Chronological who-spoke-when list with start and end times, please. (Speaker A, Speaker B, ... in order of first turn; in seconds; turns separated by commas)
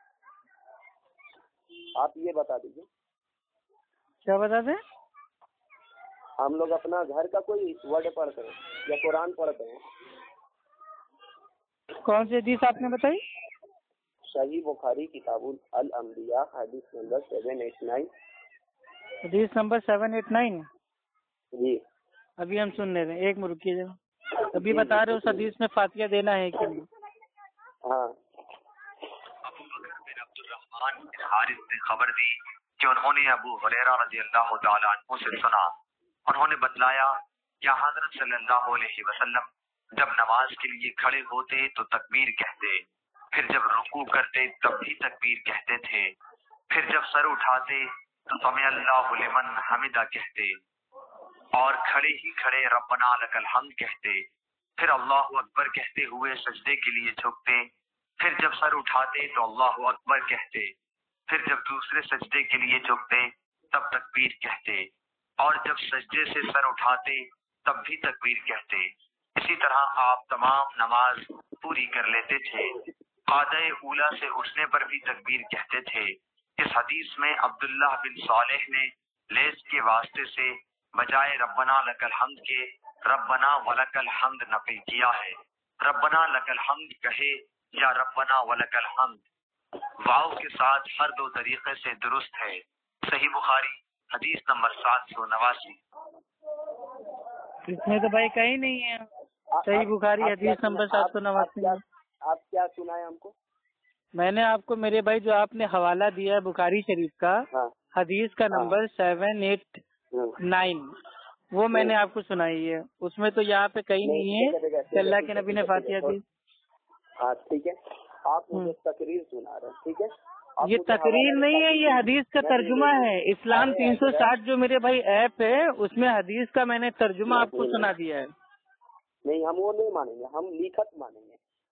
Speaker A: 2.0-2.9, Speaker B: 4.2-4.8, Speaker A: 6.4-9.8, Speaker B: 12.0-13.2, Speaker A: 14.3-18.1, Speaker B: 19.2-20.7, Speaker A: 21.5-21.8, Speaker B: 22.4-24.0, Speaker B: 24.5-26.9, Speaker A: 24.5-25.5, Speaker A: 27.9-28.2, Speaker C: 29.4-46.1, Speaker C: 46.7-50.6, Speaker C: 51.5-54.2, Speaker C: 54.8-57.7, Speaker C: 58.2-60.7, Speaker C: 61.3-64.9, Speaker C: 65.4-89.2, Speaker C: 90.0-95.8, Speaker B: 97.7-99.1, Speaker A: 99.5-103.3, Speaker B: 99.7-101.8, Speaker B: 104.2-109.8, Speaker A: 110.1-110.4, Speaker B: 110.4-110.9, Speaker B: 111.5-116.2, Speaker A: 114.0-116.2, Speaker A: 117.2-124.3, Speaker B: 120.6-128.3, Speaker A: 127.3-127.9, Speaker A: 129.2-131.4